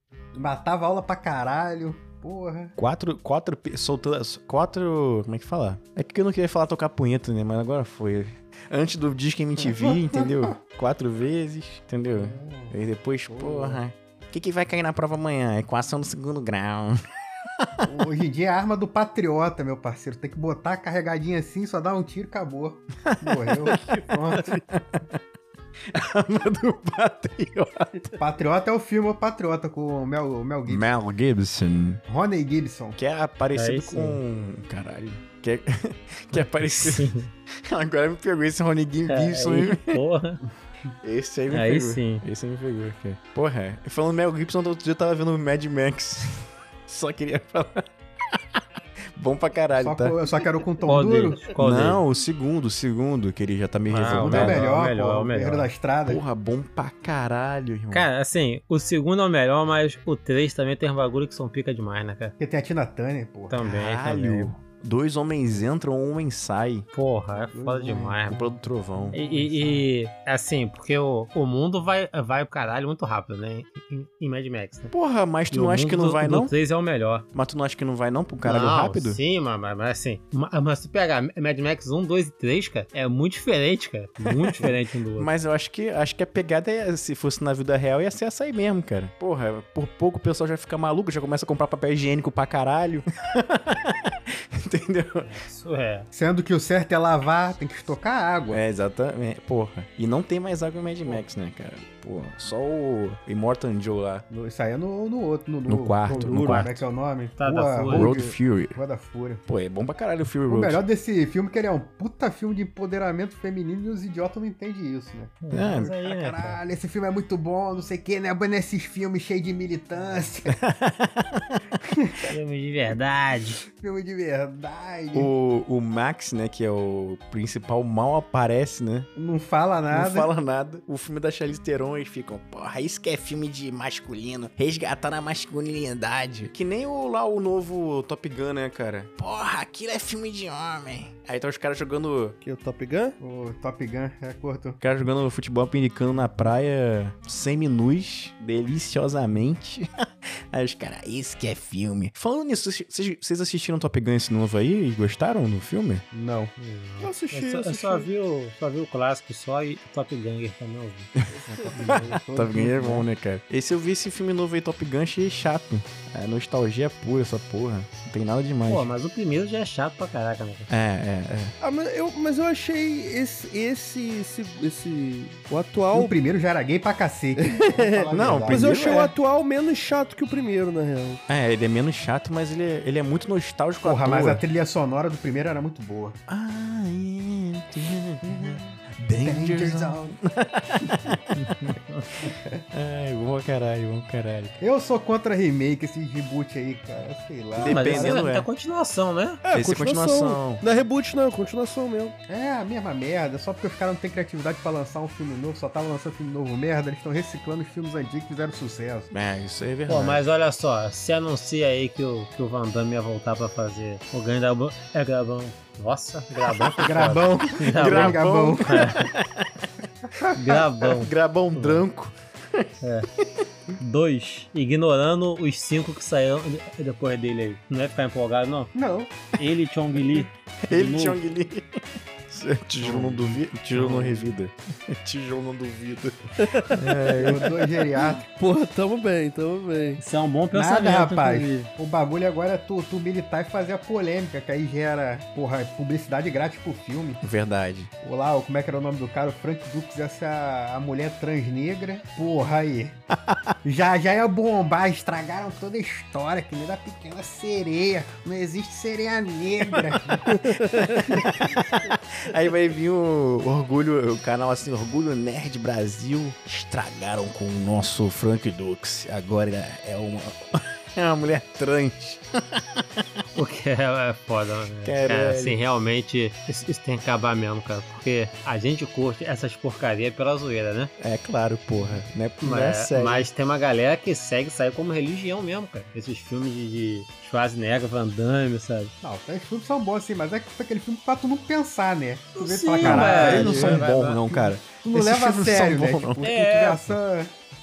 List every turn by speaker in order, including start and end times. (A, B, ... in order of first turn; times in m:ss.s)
0:00.3-0:02.8 A
0:02.8-0:17.0 B
0:09.6-0:10.3 A
0:12.1-0:12.7 A
0:13.3-0:13.8 A
0:17.8-0:24.6 A
0:23.1-0:25.1 B
0:25.9-0:28.1 B
0:28.2-0:30.8 A
0:30.7-0:32.0 B
0:32.0-0:33.0 A
0:33.0-0:40.0 B
0:33.5-0:34.2 C
0:36.8-0:37.3 C
0:39.1-0:40.4 C
0:41.0-0:47.8 B
0:41.5-0:42.2 C
0:49.2-0:50.2 B
0:49.8-0:51.4 A
0:50.8-0:52.0 C
0:51.6-0:54.6 B
0:53.9-0:55.7 C
0:54.1-0:56.2 A
0:56.0-0:58.0 B
0:57.9-1:02.3 C
1:02.4-1:03.6 A
1:03.5-1:04.5 C
1:03.6-1:06.9 B
1:06.9-1:08.5 C
1:07.5-1:08.2 A
1:08.2-1:09.2 B
1:09.0-1:09.8 A
1:09.1-1:14.9 C
1:14.9-1:16.5 B
1:15.5-1:17.3 C
1:17.3-1:19.2 B
1:18.4-1:25.3 C
1:24.4-1:35.3 B
1:35.2-1:36.1 C
1:36.1-1:38.6 A
1:38.5-1:44.2 B
1:44.3-1:49.4 A
1:45.7-1:46.7 B
1:46.0-1:46.7 D
1:46.4-1:46.7 C
1:47.4-1:48.1 C
1:47.9-1:48.8 B
1:49.5-1:50.8 B
1:50.5-2:00.6 A
1:55.4-1:56.6 C
1:55.5-1:55.9 B
2:00.5-2:01.6 B
2:01.8-2:02.3 A
2:02.3-2:03.6 C
2:03.7-2:05.3 A
2:05.1-2:09.1 B
2:09.2-2:10.3 A
2:09.9-2:22.4 B
2:22.4-2:23.2 D
2:23.2-2:24.8 A
2:24.8-2:36.0 B
2:36.1-2:36.5 A
2:36.6-2:41.1 C
2:37.0-2:38.1 D
2:41.3-2:42.7 D
2:41.5-2:48.9 B
2:41.7-2:43.0 A
2:48.7-2:50.7 C
2:50.7-2:51.5 B
2:51.6-2:56.1 D
2:55.9-2:58.7 A
2:57.4-3:01.2 D
2:58.1-2:59.1 B
3:01.3-3:04.4 B
3:03.8-3:06.2 A
3:06.3-3:11.8 B
3:09.2-3:10.2 A
3:12.3-3:12.6 A
3:12.7-3:14.6 B
3:14.6-3:18.2 A
3:17.6-3:18.5 B
3:17.6-3:19.4 C
3:19.4-3:22.2 D
3:19.5-3:20.6 B
3:22.3-3:29.1 A
3:29.1-3:30.2 B
3:29.9-3:39.1 C
3:36.8-3:38.9 A
3:37.8-3:39.7 B
3:40.1-3:40.6 A
3:40.3-3:41.8 C
3:41.0-3:42.7 B
3:42.8-3:43.1 C
3:43.8-3:48.7 C
3:48.7-3:49.2 A
3:49.4-3:51.2 C
3:50.7-3:51.6 B
3:52.3-3:57.5 B
3:52.8-3:53.4 A
3:53.7-3:54.3 C
3:56.4-3:57.2 D
3:57.2-3:58.2 A
3:58.2-4:00.0 D
4:00.0-4:01.7 C
4:00.5-4:07.2 A
4:07.2-4:07.9 B
4:08.0-4:13.0 A
4:13.6-4:20.3 A
4:20.1-4:32.6 B
4:20.3-4:21.0 D
4:33.4-4:40.9 C
4:34.8-4:35.6 B
4:41.0-4:43.3 B
4:41.8-4:48.9 C
4:49.0-4:57.3 A
4:52.4-4:54.2 C
4:52.8-4:56.3 B
4:56.2-4:56.9 C